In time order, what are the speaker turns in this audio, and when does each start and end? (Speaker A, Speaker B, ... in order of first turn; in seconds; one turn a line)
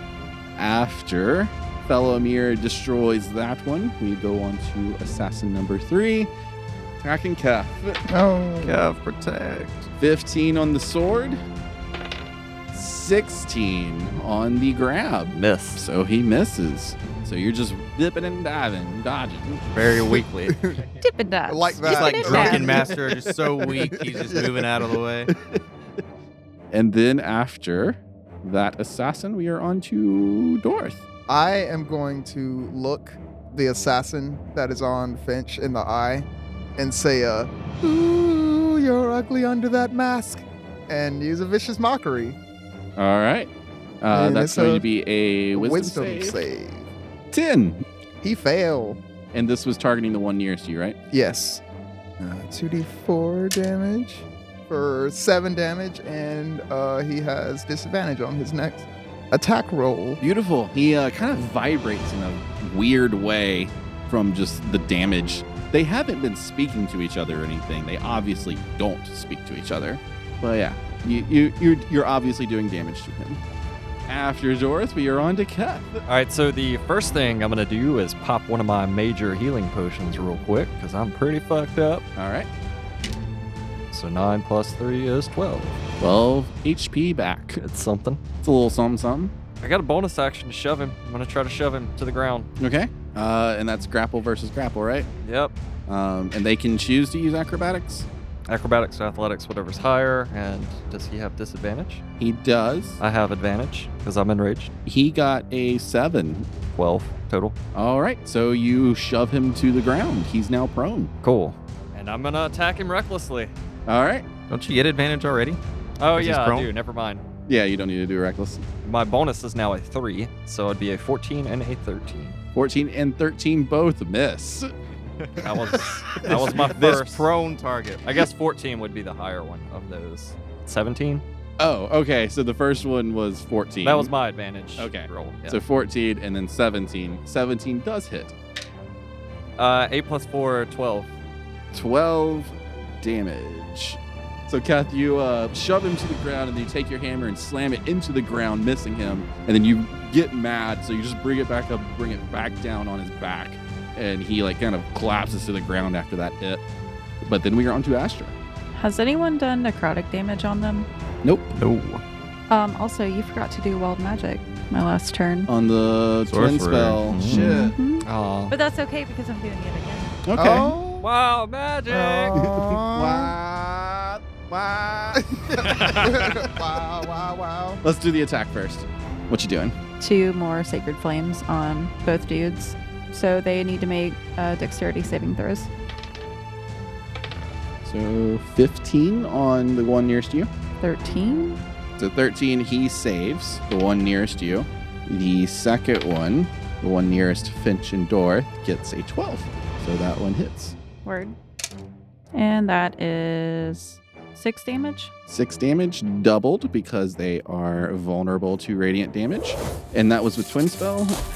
Speaker A: 0.6-6.3
Speaker A: 7.0-8.0
Speaker B: 8.1-8.8
Speaker C: 8.6-9.9
Speaker A: 10.0-11.4
Speaker A: 12.7-19.7
Speaker D: 15.3-15.8
Speaker C: 19.7-20.6
Speaker B: 20.5-20.8
Speaker E: 21.0-22.7
Speaker B: 21.5-23.0
Speaker C: 21.7-25.3
Speaker A: 22.4-23.7
Speaker B: 23.7-24.5
Speaker A: 25.3-25.6
Speaker A: 26.7-31.0
Speaker B: 31.3-36.2
Speaker B: 36.8-42.4
Speaker A: 43.0-46.4
Speaker B: 44.1-44.8
Speaker B: 45.5-46.9
Speaker A: 47.3-47.8
Speaker B: 48.2-49.0
Speaker A: 49.3-51.0
Speaker B: 51.1-51.6
Speaker B: 52.2-60.2
Speaker A: 60.2-73.4
Speaker A: 74.1-76.0
Speaker D: 76.1-82.0
Speaker A: 82.2-82.5
Speaker D: 83.9-85.8
Speaker A: 86.0-87.6
Speaker D: 87.6-88.2
Speaker A: 88.4-89.3
Speaker D: 89.6-92.5
Speaker A: 92.6-95.1
Speaker D: 95.2-95.5
Speaker A: 95.9-98.1
Speaker D: 98.5-102.0
Speaker A: 102.2-103.0
Speaker D: 103.0-104.7
Speaker A: 104.8-106.5
Speaker D: 106.7-107.5
Speaker A: 107.7-111.1
Speaker D: 111.2-113.5
Speaker A: 113.8-114.2
Speaker C: 114.5-115.6
Speaker D: 116.0-117.2
Speaker C: 116.1-116.7
Speaker A: 117.5-118.6
Speaker D: 118.8-122.4
Speaker A: 122.5-124.7
Speaker C: 125.2-128.3
Speaker D: 125.4-127.2
Speaker A: 125.7-126.7
Speaker D: 128.0-131.2
Speaker A: 131.6-134.1
Speaker D: 133.8-135.6
Speaker A: 134.8-138.3
Speaker D: 139.6-141.1
Speaker A: 141.7-156.6
Speaker A: 157.2-158.3
Speaker E: 158.7-160.9
Speaker A: 161.2-161.5
Speaker C: 161.6-162.0
Speaker E: 162.5-165.5
Speaker A: 165.5-167.7
Speaker C: 166.3-167.6
Speaker E: 167.3-170.1
Speaker D: 168.0-168.5
Speaker A: 170.2-170.8
Speaker B: 170.3-171.1
Speaker D: 171.0-172.5
Speaker B: 171.9-173.3
Speaker A: 172.3-176.5
Speaker B: 175.2-177.8
Speaker D: 175.6-176.0
Speaker A: 177.8-179.8
Speaker E: 180.0-185.7
Speaker A: 187.8-190.5
Speaker E: 190.8-191.6
Speaker A: 192.0-200.8
Speaker E: 201.0-201.3
Speaker E: 202.3-205.1
Speaker A: 205.3-211.2